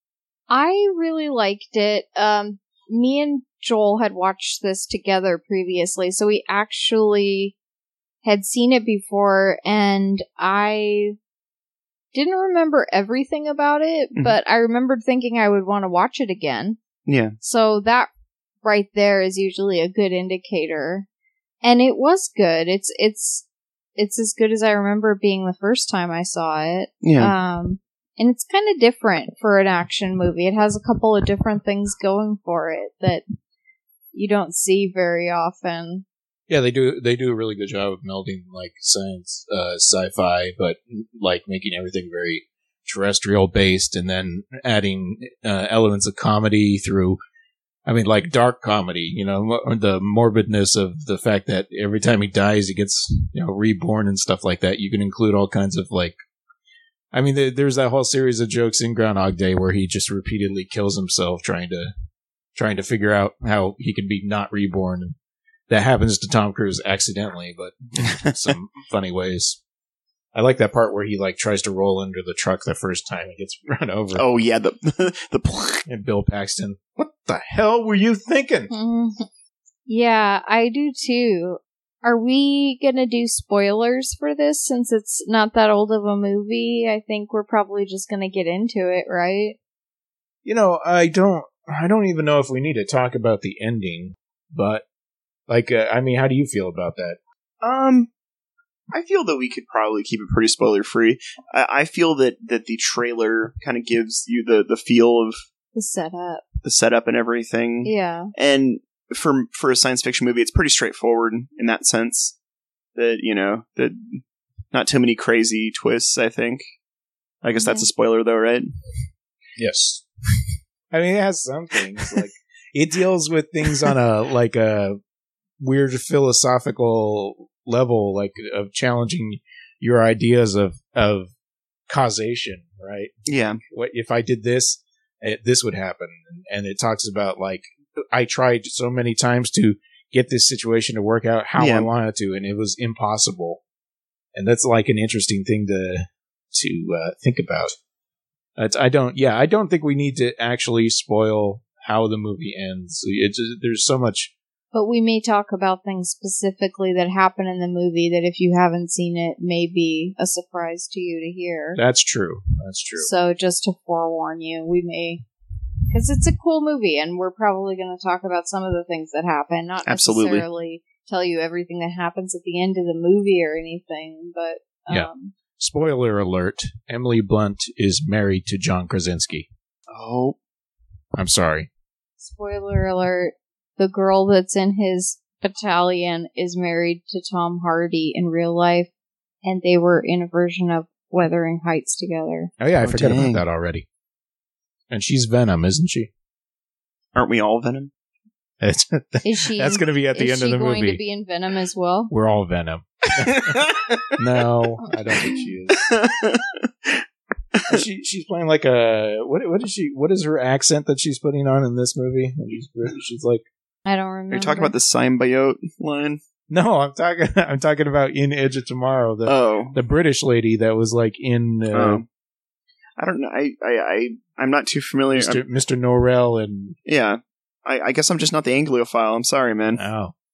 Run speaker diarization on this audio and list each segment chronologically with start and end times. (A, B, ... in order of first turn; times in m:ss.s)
0:00.5-0:07.6 A
0:08.2-0:11.2 A
0:12.1-0:16.8 A
0:17.1-0:17.3 B
0:17.4-0:18.1 A
0:18.6-0:21.1 A
0:21.6-0:23.4 A
0:24.0-0:33.2 A
0:27.0-0:27.3 B
0:34.1-0:36.0 A
0:36.5-0:47.2 C
0:47.8-0:56.2 C
0:57.1-1:01.9 C
1:02.5-1:05.1 C
1:05.7-1:09.6 C
1:10.3-1:14.2 C
1:14.1-1:15.8 B
1:15.8-1:18.7 C
1:18.7-1:19.2 A
1:19.9-1:29.6 A
1:30.4-1:34.8 C
1:35.5-1:37.2 C
1:37.6-1:38.1 B
1:38.9-1:45.4 B
1:45.7-1:46.4 A
1:46.6-1:52.4 B
1:47.8-1:48.3 A
1:52.9-1:54.2 B
1:54.7-1:56.6 B
1:57.4-1:58.7 B
1:57.6-1:57.9 A
1:59.6-2:00.0 C
2:00.9-2:05.0 C
2:05.6-2:11.3 C
2:11.9-2:13.1 C
2:13.2-2:13.6 B
2:13.7-2:23.6 C
2:21.6-2:21.9 B
2:24.3-2:27.7 C
2:28.6-2:34.3 C
2:34.7-2:41.8 A
2:41.7-2:43.1 C
2:43.0-2:45.2 A
2:45.9-2:55.3 A
2:49.8-2:50.4 B
2:54.9-2:59.5 C
2:59.9-3:00.4 B
3:01.2-3:01.7 C
3:02.2-3:08.9 A
3:09.4-3:12.5 A
3:12.6-3:13.8 C
3:12.8-3:13.4 B
3:14.9-3:16.1 C
3:17.1-3:17.9 B
3:18.6-3:21.0 C
3:19.2-3:22.1 A
3:22.1-3:25.8 C
3:23.2-3:24.1 B
3:25.8-3:27.0 B
3:27.5-3:27.8 B
3:27.7-3:33.4 C
3:33.8-3:34.7 A
3:34.3-3:36.2 B
3:36.5-3:42.0 C
3:39.2-3:39.8 B
3:41.7-3:42.0 B
3:43.0-3:45.4 B
3:45.1-3:46.8 C
3:46.8-3:49.8 B
3:49.8-3:50.1 C